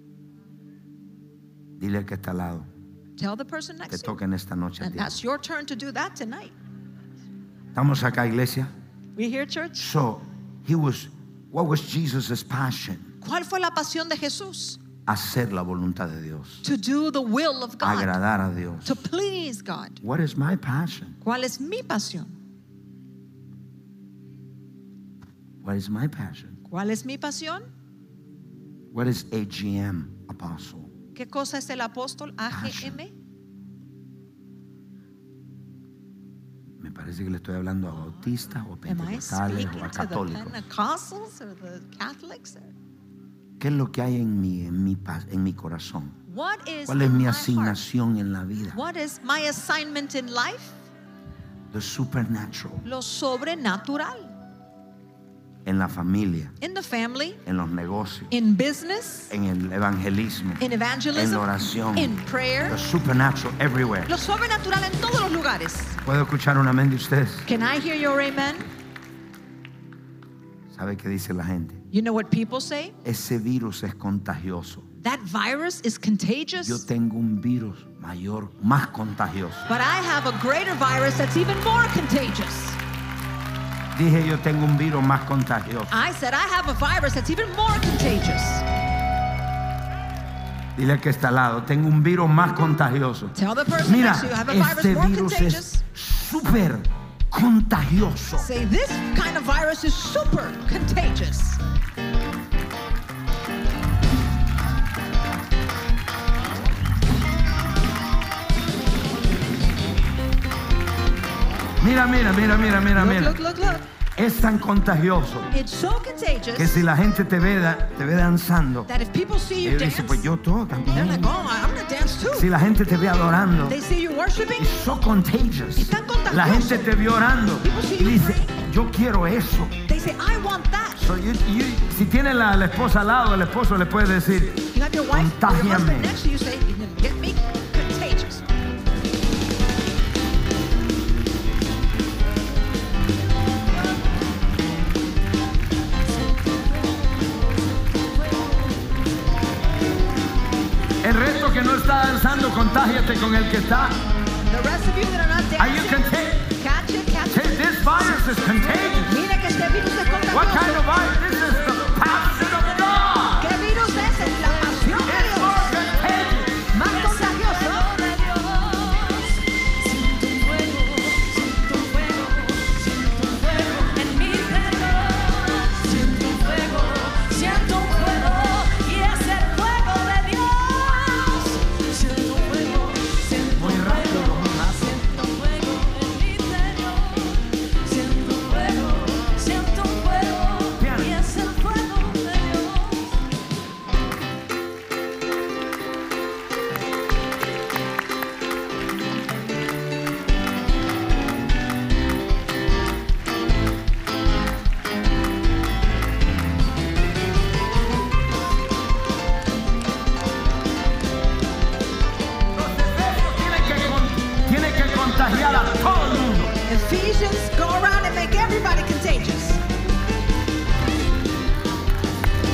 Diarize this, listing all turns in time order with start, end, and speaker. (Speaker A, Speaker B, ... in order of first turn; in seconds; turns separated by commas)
Speaker A: 1.8-2.7, Speaker B: 3.2-4.1, Speaker A: 3.9-5.2, Speaker B: 4.8-6.5, Speaker A: 7.7-8.7, Speaker B: 9.2-9.9, Speaker A: 9.8-13.1, Speaker B: 13.2-14.8, Speaker A: 15.1-16.6, Speaker B: 16.6-18.2, Speaker A: 17.8-19.0, Speaker B: 18.8-20.0, Speaker A: 20.0-21.2, Speaker B: 21.2-22.3, Speaker A: 25.6-26.6, Speaker B: 26.7-27.7, Speaker A: 28.9-30.9, Speaker B: 31.1-33.1, Speaker A: 32.5-33.0, Speaker A: 36.8-40.6, Speaker B: 38.9-42.7, Speaker A: 43.6-46.2, Speaker B: 46.3-47.8, Speaker A: 46.9-48.8, Speaker B: 48.7-50.8, Speaker A: 51.7-52.9, Speaker B: 52.8-54.4, Speaker A: 55.6-56.5, Speaker B: 56.6-57.4, Speaker A: 57.4-58.3, Speaker B: 58.3-59.3, Speaker A: 59.3-60.6, Speaker B: 60.6-62.8, Speaker A: 61.1-64.1, Speaker B: 64.1-66.0, Speaker A: 66.0-67.5, Speaker B: 67.5-68.7, Speaker A: 70.7-71.8, Speaker B: 71.9-73.0, Speaker A: 73.0-74.9, Speaker B: 75.0-76.8, Speaker A: 76.6-79.7, Speaker B: 79.7-82.8, Speaker A: 83.9-85.9, Speaker B: 85.9-88.7, Speaker A: 90.8-98.5, Speaker B: 93.3-95.8, Speaker B: 98.3-101.6, Speaker A: 111.8-113.4, Speaker B: 112.9-113.8, Speaker A: 114.2-115.5, Speaker B: 115.5-116.8, Speaker A: 116.5-118.9, Speaker B: 118.9-120.3, Speaker A: 119.6-121.3, Speaker B: 120.9-122.5, Speaker A: 122.3-123.8, Speaker B: 123.7-124.8, Speaker A: 124.6-129.8, Speaker B: 125.8-126.9, Speaker B: 127.6-128.5, Speaker B: 129.8-131.1, Speaker A: 131.0-136.2, Speaker B: 134.7-138.4, Speaker A: 151.0-154.0, Speaker B: 154.5-157.8, Speaker A: 155.6-156.5, Speaker A: 157.3-159.2, Speaker B: 159.0-160.8, Speaker A: 160.3-163.5, Speaker B: 163.3-165.8, Speaker A: 164.8-166.6, Speaker B: 166.7-167.9, Speaker C: 166.9-193.2, Speaker A: 183.5-185.0, Speaker A: 190.8-191.2, Speaker A: 212.5-216.6, Speaker B: 216.7-219.6